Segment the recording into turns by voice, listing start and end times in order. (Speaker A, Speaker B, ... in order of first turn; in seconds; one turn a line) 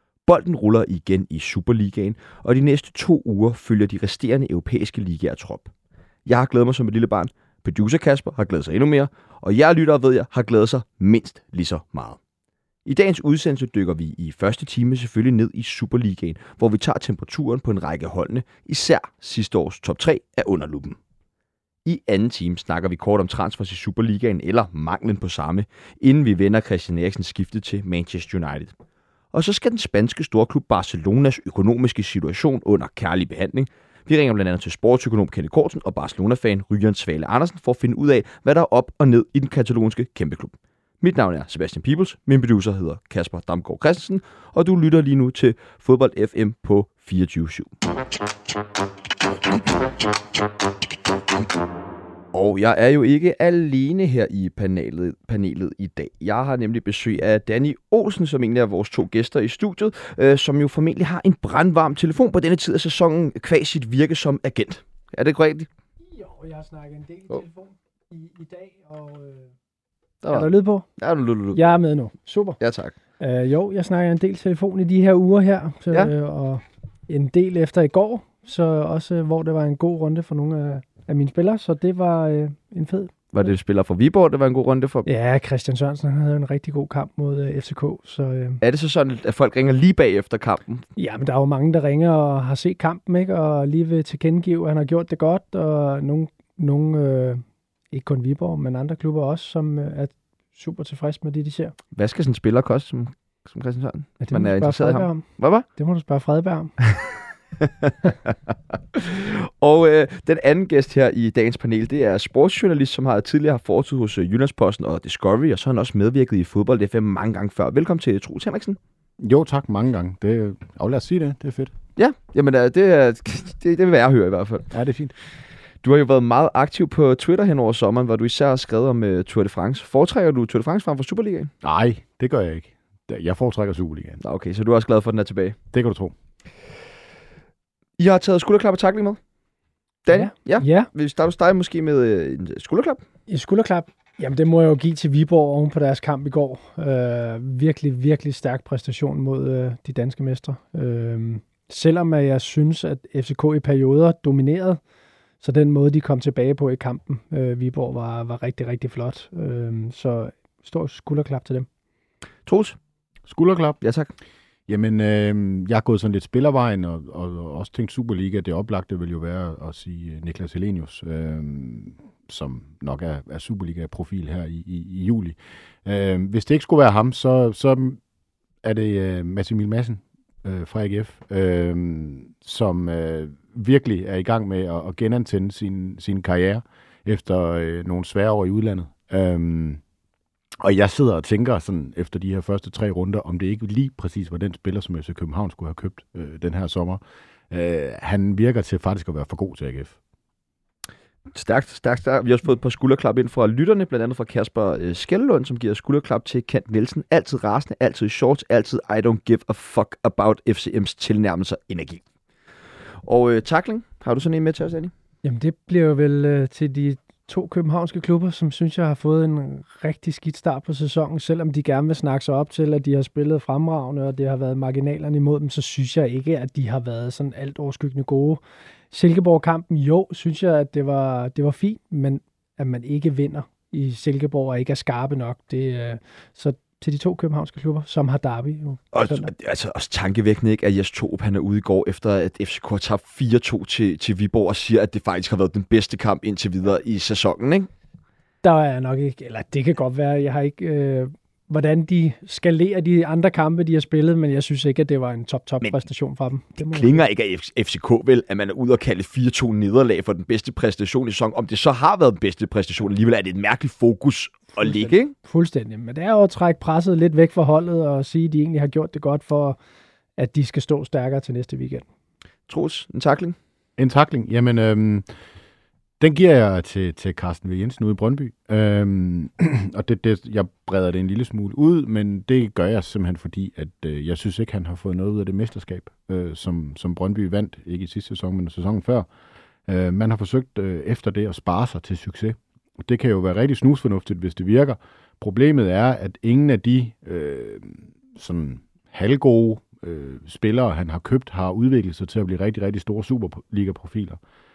Speaker A: 0.2-5.7
Speaker A: 6.2-12.2
Speaker A: 12.8-21.0
Speaker A: 21.8-28.7
Speaker A: 29.3-47.7
Speaker A: 52.3-65.7
Speaker B: 66.1-69.5
Speaker A: 70.2-71.8
Speaker B: 70.3-70.8
Speaker B: 71.5-72.6
Speaker A: 72.6-73.0
Speaker B: 73.2-83.1
Speaker A: 83.3-85.0
Speaker B: 85.0-88.6
Speaker A: 88.6-90.8
Speaker B: 91.0-101.7
Speaker A: 101.9-105.6
Speaker B: 104.2-105.2
Speaker B: 105.8-106.7
Speaker A: 107.6-108.0
Speaker A: 108.9-118.8
Speaker C: 119.2-121.8
Speaker A: 122.0-124.7
Speaker C: 124.7-125.1
Speaker A: 125.8-131.5
Speaker C: 131.6-134.2
Speaker A: 134.2-135.6
Speaker C: 135.7-136.1
Speaker A: 138.0-139.2
Speaker A: 140.0-143.0
Speaker B: 140.1-140.9
Speaker B: 143.3-154.8
Speaker B: 155.4-161.7
Speaker A: 162.4-162.8
Speaker C: 163.3-163.8
Speaker A: 163.8-164.1
Speaker C: 164.7-178.0
Speaker C: 178.6-189.8
Speaker C: 190.6-200.0
Speaker A: 201.3-212.0
Speaker A: 213.0-214.9
Speaker B: 215.2-239.3
Speaker A: 238.9-247.7
Speaker B: 248.4-257.0
Speaker A: 256.6-265.1
Speaker B: 264.6-269.6
Speaker B: 270.2-271.8
Speaker A: 272.5-273.4
Speaker C: 273.8-275.1
Speaker C: 276.0-289.1
Speaker C: 289.7-304.2